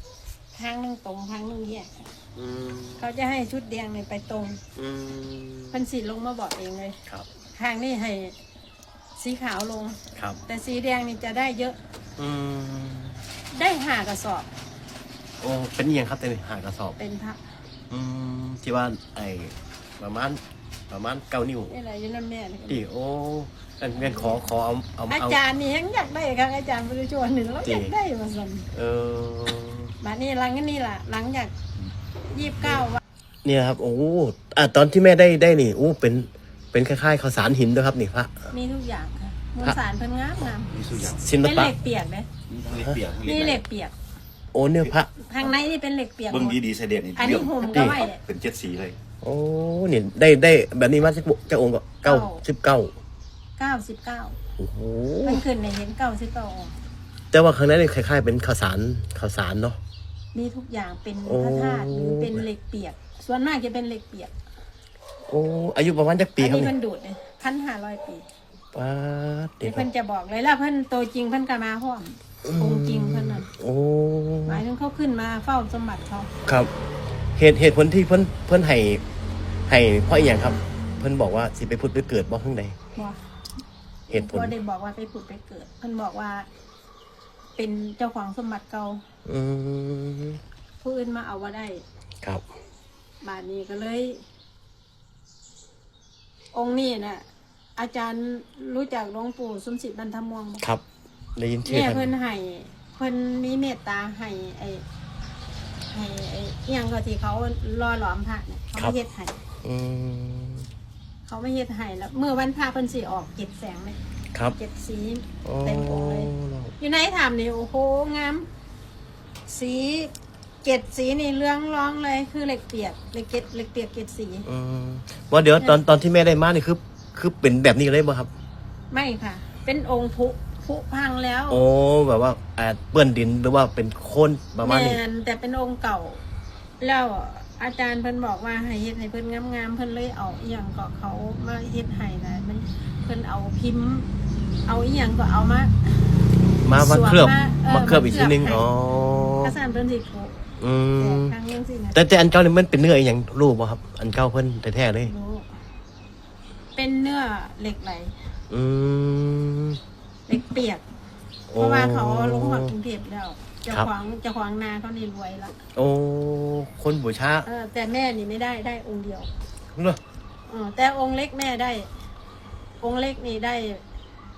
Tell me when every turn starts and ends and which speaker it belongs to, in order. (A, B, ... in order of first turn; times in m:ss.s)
0:00.5-0:02.1 A
0:02.4-0:03.1 B
0:03.0-0:04.6 A
0:04.8-0:05.8 B
0:05.7-0:07.0 A
0:07.6-0:08.4 A
0:09.2-0:11.8 A
0:12.2-0:13.2 B
0:13.5-0:14.5 A
0:15.4-0:17.0 B
0:17.0-0:17.4 A
0:17.9-0:21.7 B
0:21.7-0:22.9 A
0:22.7-0:25.4 B
0:24.0-0:24.4 A
0:25.1-0:28.7 A
0:27.6-0:27.9 B
0:28.7-0:29.9 B
0:30.0-0:31.5 A
0:32.3-0:33.0 A
0:33.4-0:38.5 B
0:38.5-0:40.7 A
0:40.7-0:41.2 C
0:41.1-0:41.7 B
0:41.4-0:42.3 A
0:42.5-0:43.6 C
0:43.2-0:43.9 A
0:44.5-0:45.1 B
0:45.2-0:46.6 A
0:46.3-0:49.0 C
0:47.2-0:48.2 A
0:47.7-0:48.0 B
0:49.2-0:52.9 B
0:52.0-0:52.4 A
0:53.6-0:54.4 A
0:54.6-0:55.4 B
0:55.2-0:56.8 A
0:57.3-0:59.8 B
1:00.3-1:04.3 A
1:01.2-1:02.5 B
1:05.3-1:06.7 B
1:06.4-1:08.2 A
1:08.7-1:09.9 B
1:09.6-1:13.5 A
1:12.4-1:14.6 B
1:14.5-1:16.3 A
1:16.4-1:16.7 B
1:17.4-1:19.0 B
1:19.7-1:22.8 B
1:24.1-1:26.5 A
1:24.1-1:24.6 B
1:27.6-1:29.0 A
1:29.2-1:30.4 B
1:30.8-1:31.8 A
1:33.2-1:34.2 A
1:36.5-1:37.2 A
1:37.8-1:40.6 A
1:41.4-1:42.1 B
1:41.6-1:44.8 A
1:45.9-1:49.4 A
1:49.6-1:50.7 B
1:51.3-1:54.0 A
1:54.6-1:58.5 A
1:55.4-1:56.7 B
1:59.5-2:00.1 A
2:00.6-2:04.5 A
2:04.5-2:08.3 B
2:08.9-2:11.6 A
2:11.5-2:15.0 B
2:14.6-2:16.2 A
2:16.8-2:24.1 A
2:24.7-2:26.2 A
2:26.6-2:29.5 B
2:26.8-2:28.7 A
2:29.4-2:32.0 A
2:30.6-2:31.4 B
2:31.9-2:35.1 B
2:35.0-2:35.5 A
2:36.8-2:38.2 A
2:38.5-2:39.8 B
2:40.3-2:40.8 A
2:41.5-2:42.7 B
2:41.6-2:45.6 A
2:45.8-2:47.5 B
2:47.4-2:49.3 A
2:50.5-2:51.9 A
2:52.8-2:53.8 A